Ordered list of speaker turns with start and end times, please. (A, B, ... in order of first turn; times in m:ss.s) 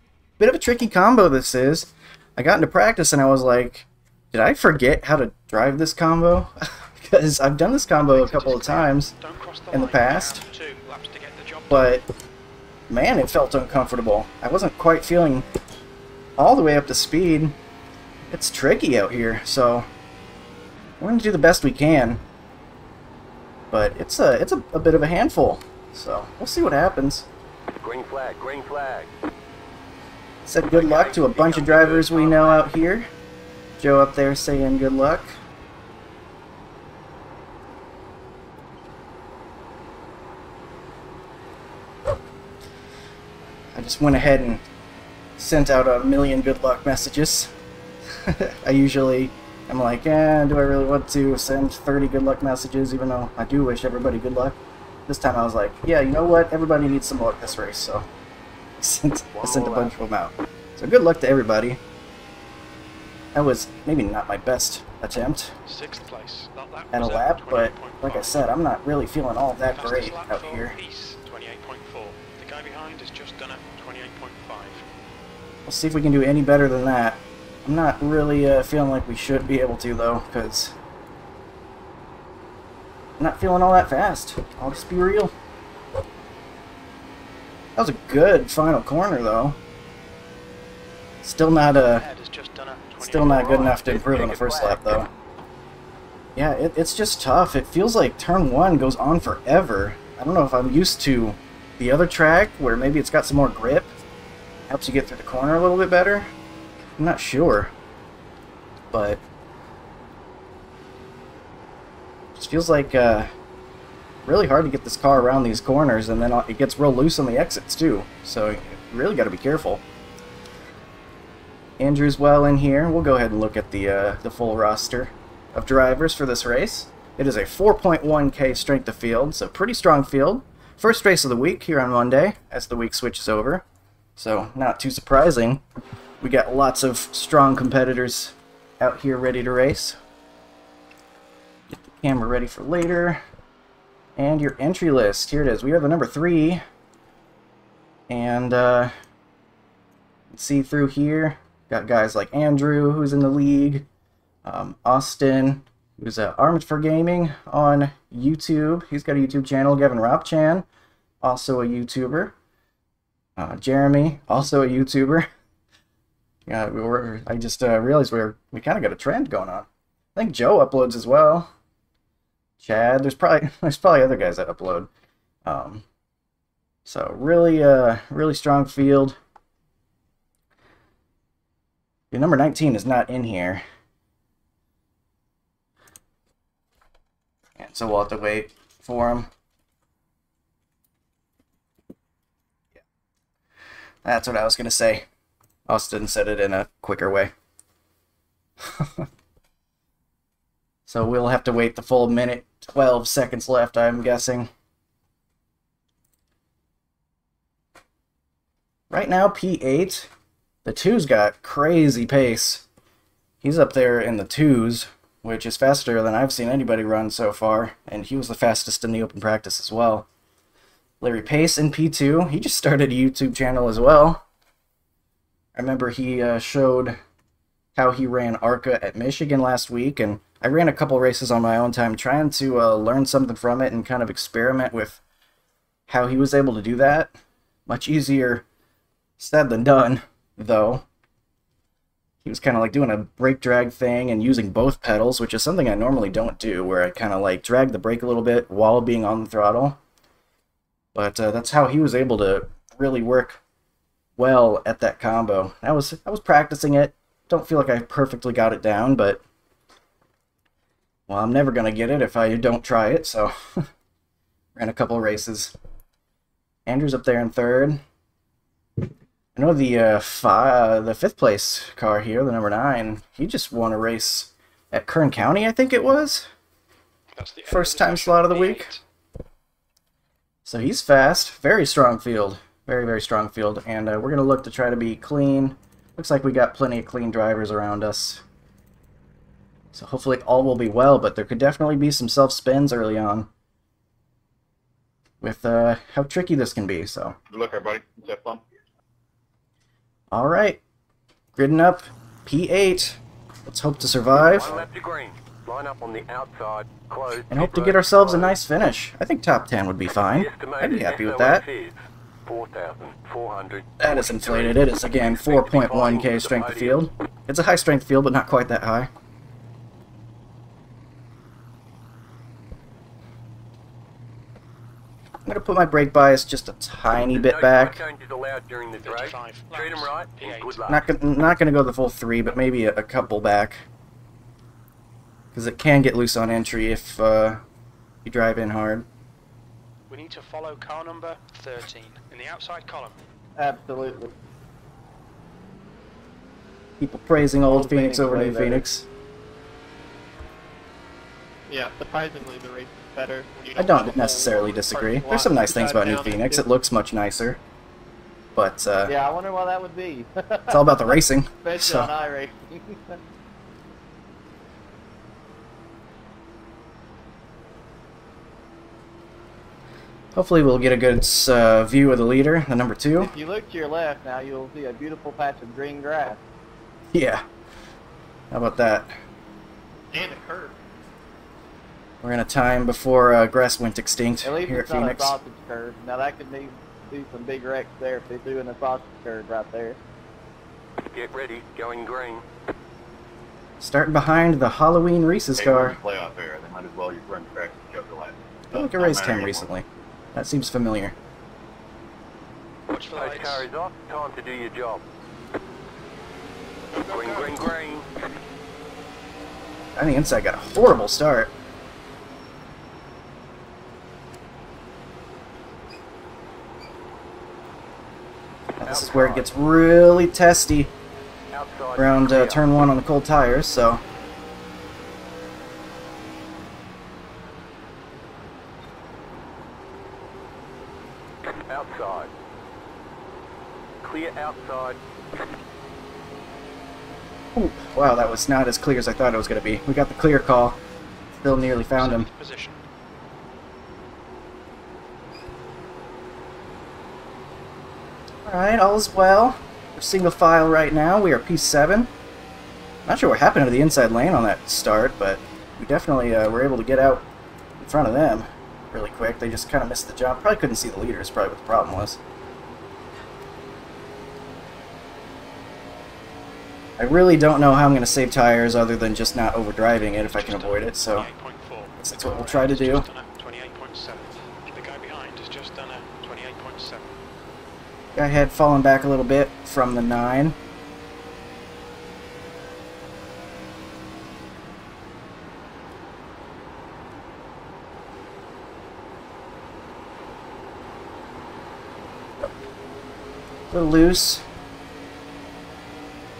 0:00.4-0:09.1 A
0:08.0-0:11.9 B
0:09.7-0:10.4 A
0:11.7-0:12.0 A
0:12.9-0:15.4 A
0:16.4-0:17.6 A
0:18.3-0:19.9 A
0:21.0-0:22.2 A
0:23.7-0:27.3 A
0:27.8-0:29.1 C
0:30.4-0:33.1 A
0:30.7-0:32.7 C
0:33.8-0:35.4 A
0:43.7-0:44.6 A
0:45.4-0:47.5 A
0:48.2-0:58.0 A
0:58.8-1:01.8 A
0:59.3-0:59.9 C
1:03.3-1:05.5 A
1:05.6-1:08.4 B
1:06.9-1:10.7 A
1:09.7-1:14.8 B
1:15.6-1:20.7 A
1:23.2-1:25.3 A
1:27.8-1:29.6 A
1:31.2-1:32.0 A
1:31.8-1:33.9 B
1:33.0-1:35.1 A
1:33.5-1:35.0 C
1:36.4-1:43.9 A
1:44.7-1:46.3 A
1:47.0-1:47.7 A
1:48.9-1:49.2 A
1:52.3-1:53.3 A
1:54.2-1:59.8 A
2:01.8-2:13.6 A
2:14.2-2:15.6 A
2:16.2-2:20.0 A
2:21.7-2:23.2 A
2:24.2-2:26.6 A
2:28.1-2:28.9 A
2:30.3-2:33.8 A
2:34.4-2:40.6 A
2:41.2-2:42.3 A
2:43.4-2:45.3 A
2:46.5-2:51.5 A
2:52.6-2:54.9 A
2:55.4-2:55.8 A
2:56.8-2:59.2 A
3:02.1-3:03.6 A
3:07.6-3:09.3 A
3:14.0-3:15.0 A
3:15.7-3:17.3 A
3:18.7-3:19.0 A
3:20.9-3:24.5 A
3:28.9-3:30.1 A
3:30.6-3:32.6 A
3:33.4-3:40.0 A
3:41.0-3:44.2 A
3:45.5-3:47.0 A
3:47.7-3:55.0 A
3:55.9-3:57.1 A
3:57.7-3:58.4 A
3:59.2-4:00.8 A
4:02.2-4:09.8 A
4:10.9-4:13.4 A
4:14.2-4:19.2 A
4:21.1-4:23.6 A
4:24.6-4:25.5 A
4:26.6-4:27.8 A
4:29.3-4:36.3 A
4:37.1-4:38.8 B
4:37.5-4:38.7 A
4:40.4-4:48.2 A
4:49.7-4:53.3 A
4:55.2-4:57.2 A
4:57.3-4:58.5 D
5:00.1-5:00.6 A
5:01.3-5:04.7 A
5:04.1-5:08.4 C
5:07.3-5:11.4 A
5:10.1-5:16.9 C
5:13.8-5:18.9 A
5:25.2-5:27.8 A
5:26.9-5:30.8 C
5:28.8-5:30.6 B
5:30.7-5:33.6 A
5:35.3-5:37.4 A
5:38.0-5:38.8 A
5:39.9-5:43.0 B
5:43.4-5:44.1 E
5:46.8-5:48.8 A
5:47.5-5:48.6 E
5:51.5-5:56.4 F
5:53.6-5:57.4 A
5:58.3-5:58.9 A
5:58.8-6:03.0 E
6:00.5-6:01.9 A
6:10.1-6:13.1 A
6:13.0-6:16.2 E
6:16.9-6:17.2 A
6:18.3-6:18.9 A
6:19.9-6:20.6 F
6:22.0-6:25.2 A
6:24.2-6:29.8 E
6:30.8-6:32.2 C
6:33.6-6:35.8 A
6:35.4-6:39.5 D
6:38.5-6:40.9 A
6:42.7-6:43.4 B
6:42.9-6:44.8 C
6:46.7-6:47.5 F
6:46.8-6:47.8 C
6:49.8-6:51.3 A
6:58.6-7:00.7 A
6:58.6-6:59.3 C
7:01.3-7:02.4 C
7:01.8-7:03.8 A
7:11.5-7:12.1 C
7:13.8-7:14.8 C
7:17.3-7:20.6 A
7:21.2-7:22.1 A
7:21.7-7:22.6 B
7:28.3-7:31.9 A
7:32.8-7:37.0 A
7:37.6-7:42.0 A
7:46.8-7:51.1 A
7:49.7-7:56.9 B
7:51.8-7:52.8 A
7:57.9-8:00.4 A
8:13.5-8:14.2 A